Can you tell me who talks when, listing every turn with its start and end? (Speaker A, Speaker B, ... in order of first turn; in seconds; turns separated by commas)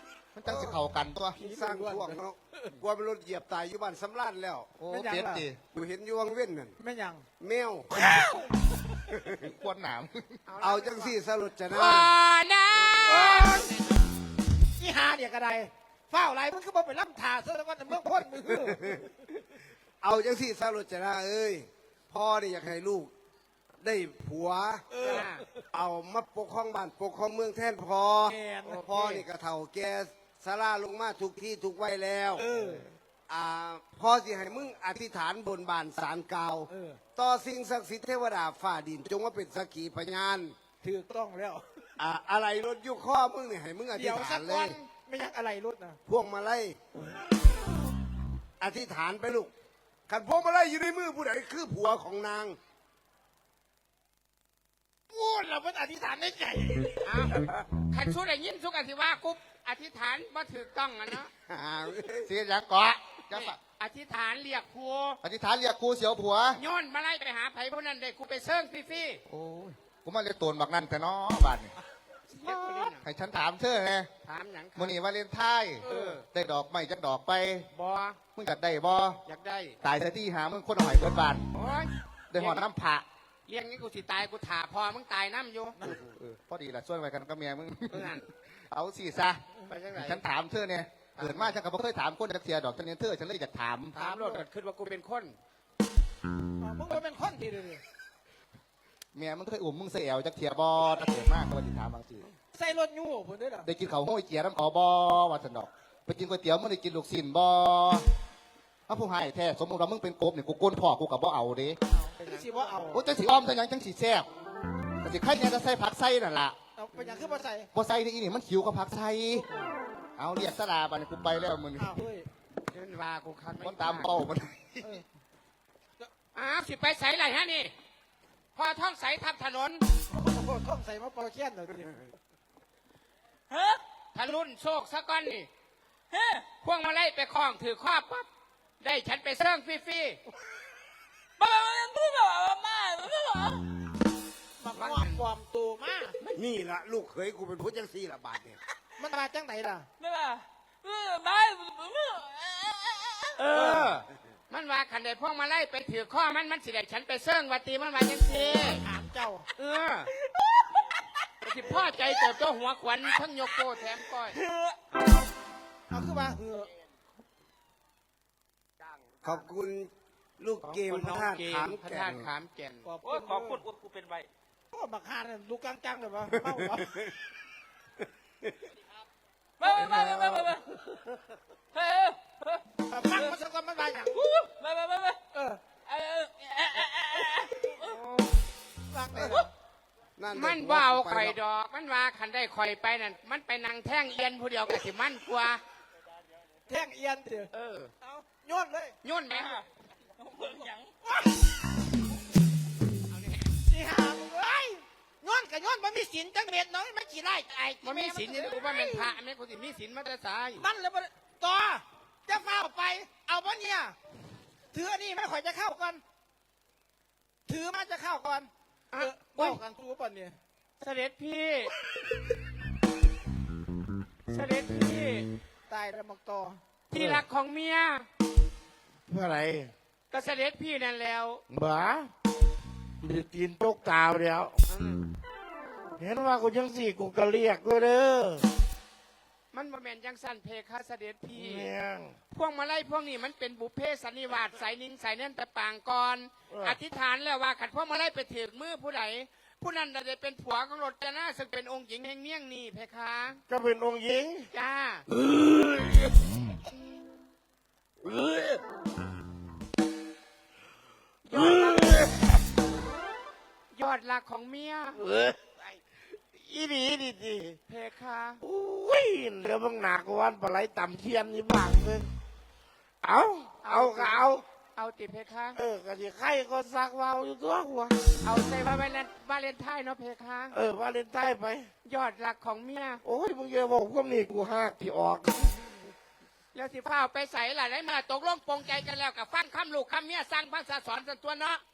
Speaker A: 0.3-1.4, Speaker B: 0.5-0.8, Speaker C: 1.4-2.7, Speaker B: 1.4-4.8, Speaker A: 4.8-5.6, Speaker C: 4.9-5.5, Speaker B: 5.7-6.8, Speaker C: 6.8-7.3, Speaker B: 7.4-8.2, Speaker C: 7.9-8.5, Speaker B: 9.1-9.5, Speaker A: 9.5-10.4, Speaker D: 10.5-11.2, Speaker B: 10.6-12.1, Speaker D: 11.7-14.0, Speaker B: 12.8-13.3, Speaker C: 13.0-13.7, Speaker C: 14.8-19.0, Speaker B: 18.5-19.1, Speaker B: 20.0-23.1, Speaker B: 23.8-24.9, Speaker C: 24.9-25.4, Speaker D: 25.0-25.4, Speaker B: 25.7-32.5, Speaker C: 28.3-29.1, Speaker D: 28.9-29.2, Speaker C: 32.4-32.9, Speaker B: 33.3-40.6, Speaker C: 36.7-37.0, Speaker C: 40.8-41.6, Speaker B: 42.0-44.8, Speaker C: 44.0-46.0, Speaker B: 46.1-46.8, Speaker B: 48.6-49.5, Speaker B: 50.1-52.6, Speaker C: 55.1-57.1, Speaker D: 57.0-61.3, Speaker B: 61.5-62.3, Speaker A: 62.3-63.6, Speaker D: 63.3-65.2, Speaker A: 65.2-66.6, Speaker D: 66.6-69.2, Speaker A: 69.3-71.7, Speaker D: 72.4-73.1, Speaker C: 72.5-72.8, Speaker A: 72.9-74.1, Speaker D: 74.2-74.9, Speaker A: 74.8-77.7, Speaker D: 75.8-76.2, Speaker C: 75.8-76.2, Speaker D: 77.7-78.2, Speaker A: 78.3-79.2, Speaker D: 79.3-79.8, Speaker A: 79.8-81.5, Speaker D: 81.5-82.7, Speaker A: 82.3-83.0, Speaker D: 83.5-85.8, Speaker A: 85.9-94.0, Speaker D: 87.9-88.2, Speaker D: 89.7-90.2, Speaker D: 91.2-91.6, Speaker D: 93.9-95.4, Speaker C: 94.0-94.4, Speaker C: 96.6-97.8, Speaker A: 99.1-102.2, Speaker C: 102.5-103.7, Speaker A: 103.7-108.0, Speaker A: 108.9-111.8, Speaker C: 111.9-113.0, Speaker D: 111.9-112.7, Speaker A: 112.9-114.3, Speaker A: 115.0-116.5, Speaker C: 116.8-117.7, Speaker A: 117.7-119.5, Speaker A: 120.2-122.0, Speaker C: 121.8-122.3, Speaker D: 122.7-124.1, Speaker A: 123.6-124.9, Speaker D: 126.3-127.7, Speaker D: 128.6-129.8, Speaker C: 130.1-132.0, Speaker E: 133.5-133.8, Speaker D: 134.1-135.5, Speaker E: 136.1-136.5, Speaker D: 136.6-138.3, Speaker D: 138.8-140.2, Speaker E: 141.4-143.7, Speaker C: 144.6-146.2, Speaker D: 144.8-145.2, Speaker B: 146.3-148.6, Speaker C: 149.0-149.9, Speaker E: 150.0-153.5, Speaker D: 153.4-158.8, Speaker B: 153.5-153.9, Speaker C: 158.8-159.4, Speaker D: 159.6-160.1, Speaker E: 160.2-160.7, Speaker D: 161.4-164.4, Speaker E: 161.6-162.3, Speaker E: 163.5-164.8, Speaker C: 165.9-166.7, Speaker B: 169.2-172.3, Speaker D: 170.6-172.9, Speaker C: 172.8-173.6, Speaker E: 173.0-174.3, Speaker C: 174.7-176.9, Speaker B: 176.7-177.1, Speaker E: 179.6-181.1, Speaker E: 181.7-183.4, Speaker C: 182.9-184.2, Speaker E: 184.1-188.0, Speaker C: 185.3-185.6, Speaker C: 188.9-189.5, Speaker E: 189.2-189.4, Speaker B: 190.2-191.4, Speaker D: 190.3-195.6, Speaker C: 196.7-198.9, Speaker D: 197.5-197.9, Speaker D: 199.0-199.6, Speaker E: 199.3-199.6, Speaker E: 200.2-200.9, Speaker C: 201.1-201.3, Speaker C: 203.6-209.1, Speaker D: 207.8-210.6, Speaker C: 210.6-214.0, Speaker C: 214.7-216.0, Speaker C: 217.5-220.4, Speaker D: 218.9-219.6, Speaker D: 220.8-221.7, Speaker D: 224.3-225.3, Speaker C: 225.7-226.6, Speaker D: 226.9-228.1, Speaker F: 226.9-227.2, Speaker F: 229.1-229.7, Speaker D: 230.1-231.4, Speaker F: 231.5-232.1, Speaker F: 233.0-234.6, Speaker D: 234.7-235.0, Speaker F: 236.0-238.5, Speaker D: 239.5-241.7, Speaker F: 241.3-242.2, Speaker D: 242.3-253.4, Speaker F: 246.5-246.8, Speaker F: 253.5-254.5, Speaker D: 254.5-255.1, Speaker F: 255.1-256.3, Speaker F: 258.0-258.6, Speaker D: 261.3-262.1, Speaker F: 261.3-262.3, Speaker D: 263.7-265.0, Speaker F: 265.0-265.8, Speaker F: 266.3-267.6, Speaker D: 267.7-268.4, Speaker F: 268.4-272.1, Speaker F: 273.0-274.4, Speaker D: 273.6-275.6, Speaker F: 275.6-278.1, Speaker D: 278.2-280.6, Speaker F: 280.5-281.7, Speaker D: 281.9-283.0, Speaker F: 283.0-285.7, Speaker D: 286.5-291.6